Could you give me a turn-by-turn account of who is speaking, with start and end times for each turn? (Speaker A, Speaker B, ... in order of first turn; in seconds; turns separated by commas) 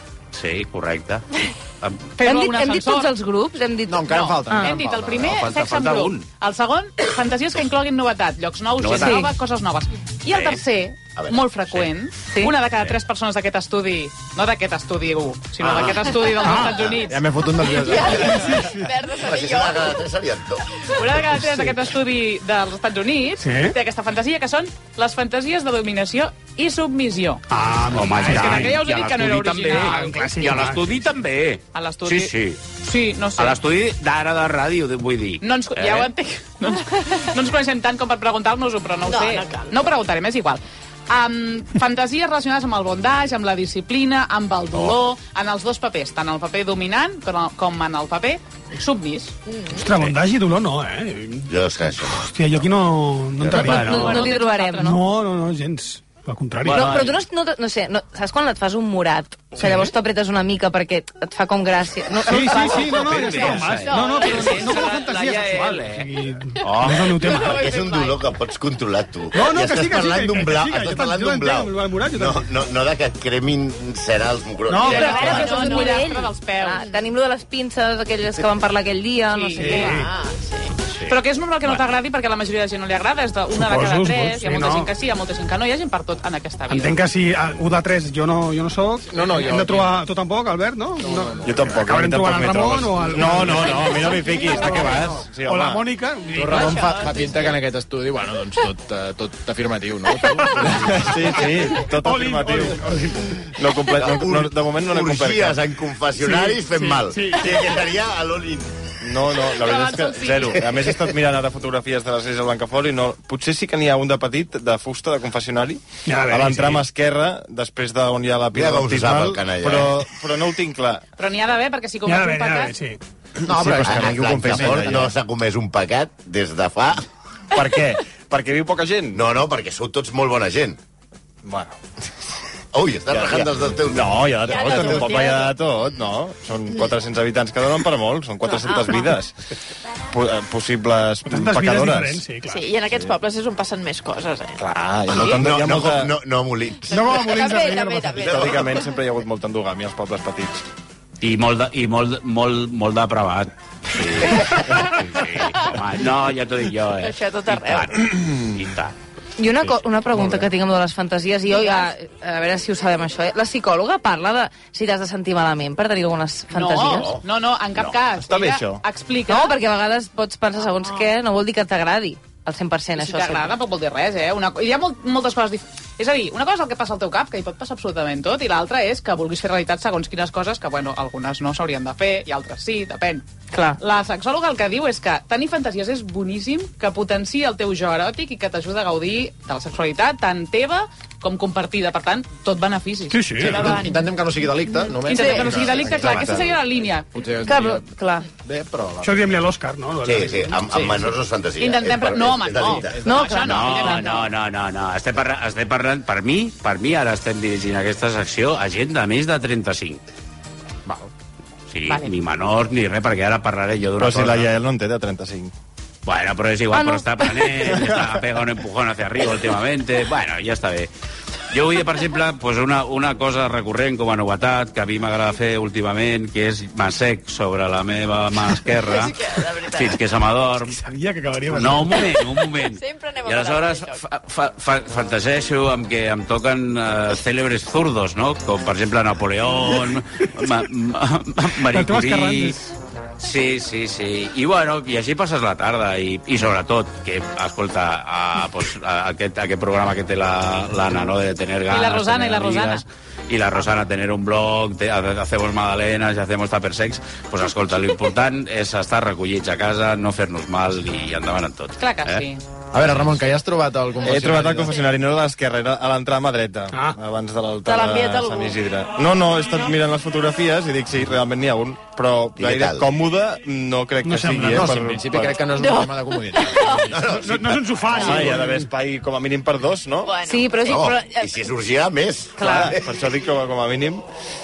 Speaker A: 0.3-2.1, Speaker B: 2.2-3.1, Speaker C: 2.2-4.8, Speaker D: 3.9-5.4, Speaker B: 4.1-17.3, Speaker A: 5.2-6.3, Speaker A: 8.8-9.2, Speaker C: 9.0-9.3, Speaker A: 10.3-10.6, Speaker E: 11.2-11.5, Speaker C: 12.2-12.6, Speaker F: 16.4-16.8, Speaker D: 16.9-18.5, Speaker G: 17.6-20.1, Speaker F: 18.3-18.9, Speaker E: 19.2-20.6, Speaker B: 21.0-27.4, Speaker F: 23.4-23.8, Speaker F: 27.5-28.8, Speaker A: 27.9-32.7, Speaker B: 28.2-30.4, Speaker F: 29.8-31.1, Speaker B: 31.7-33.6, Speaker A: 33.4-36.1, Speaker B: 35.4-49.3, Speaker G: 39.0-39.9, Speaker G: 49.5-50.1, Speaker F: 49.7-51.5, Speaker E: 51.5-52.3, Speaker F: 52.0-54.2, Speaker E: 53.4-53.9, Speaker A: 53.4-54.3, Speaker C: 53.6-55.0, Speaker B: 53.9-55.0, Speaker F: 54.8-56.9, Speaker A: 56.6-57.2, Speaker C: 56.7-63.5, Speaker F: 59.6-59.9, Speaker F: 62.2-67.7, Speaker A: 62.9-67.5, Speaker G: 63.3-64.9, Speaker G: 66.6-68.2, Speaker E: 67.3-75.5, Speaker F: 69.3-72.5, Speaker F: 74.7-75.4, Speaker B: 74.8-76.8, Speaker C: 74.9-80.0, Speaker G: 74.9-76.1, Speaker B: 79.3-80.0, Speaker G: 79.6-80.8, Speaker F: 79.6-80.1, Speaker A: 81.0-81.8, Speaker B: 81.1-87.1, Speaker F: 83.5-84.9, Speaker F: 86.7-96.9, Speaker D: 89.0-90.0, Speaker D: 91.0-91.7, Speaker H: 91.4-95.8, Speaker D: 93.1-95.2, Speaker D: 96.3-101.1, Speaker G: 96.4-97.6, Speaker H: 100.6-105.6, Speaker F: 101.4-103.6, Speaker E: 103.9-108.8, Speaker F: 106.2-107.7, Speaker H: 109.0-121.0, Speaker B: 109.5-110.6, Speaker E: 110.7-111.0, Speaker F: 116.1-116.8, Speaker E: 118.5-120.0, Speaker B: 121.2-122.8, Speaker F: 122.0-123.0, Speaker H: 123.4-125.1, Speaker D: 123.5-125.1, Speaker E: 123.8-127.0, Speaker H: 127.5-129.2, Speaker E: 129.1-130.8, Speaker H: 131.4-131.7, Speaker E: 132.7-135.1, Speaker H: 133.1-139.3, Speaker G: 134.5-135.6, Speaker G: 138.4-139.2, Speaker H: 140.1-142.3, Speaker F: 141.3-142.7, Speaker G: 142.4-145.4, Speaker H: 144.6-146.1, Speaker E: 145.2-147.4, Speaker F: 146.9-148.3, Speaker G: 146.9-148.9, Speaker E: 148.2-148.6, Speaker H: 148.2-150.6, Speaker A: 151.2-158.9, Speaker G: 154.3-155.7, Speaker G: 157.0-158.1, Speaker C: 159.4-167.2, Speaker B: 166.5-169.6, Speaker E: 167.0-167.2, Speaker H: 168.1-168.8, Speaker C: 169.3-173.6, Speaker B: 173.0-183.3, Speaker C: 183.5-183.8, Speaker B: 183.8-193.8, Speaker F: 193.1-193.7, Speaker D: 193.4-197.9, Speaker G: 193.6-194.1, Speaker G: 194.7-195.9, Speaker B: 195.1-197.1, Speaker H: 195.5-196.5, Speaker C: 197.4-198.3, Speaker D: 198.4-199.4, Speaker F: 199.0-200.8, Speaker E: 200.0-203.0, Speaker D: 200.7-201.1, Speaker B: 201.6-204.3, Speaker D: 202.6-203.5, Speaker C: 203.0-204.1, Speaker A: 203.4-210.0, Speaker A: 211.7-214.5, Speaker H: 214.0-215.5, Speaker A: 216.1-220.9, Speaker C: 216.7-217.5, Speaker A: 221.5-230.8, Speaker G: 228.8-230.0, Speaker F: 230.7-232.4, Speaker A: 231.5-242.6, Speaker G: 232.7-234.0, Speaker F: 241.7-242.6, Speaker A: 243.2-262.3, Speaker B: 251.7-252.8, Speaker B: 261.8-262.4, Speaker D: 262.7-264.7, Speaker H: 264.0-275.4, Speaker F: 266.7-267.0, Speaker G: 267.7-268.6, Speaker E: 272.4-272.9, Speaker F: 274.0-274.7, Speaker D: 274.4-277.1, Speaker G: 275.6-277.0, Speaker E: 276.9-278.1, Speaker F: 277.1-278.7, Speaker G: 277.9-278.3, Speaker H: 277.9-280.1, Speaker G: 280.0-280.6, Speaker C: 280.2-281.3, Speaker E: 280.6-282.8, Speaker C: 282.4-282.8, Speaker H: 282.4-284.0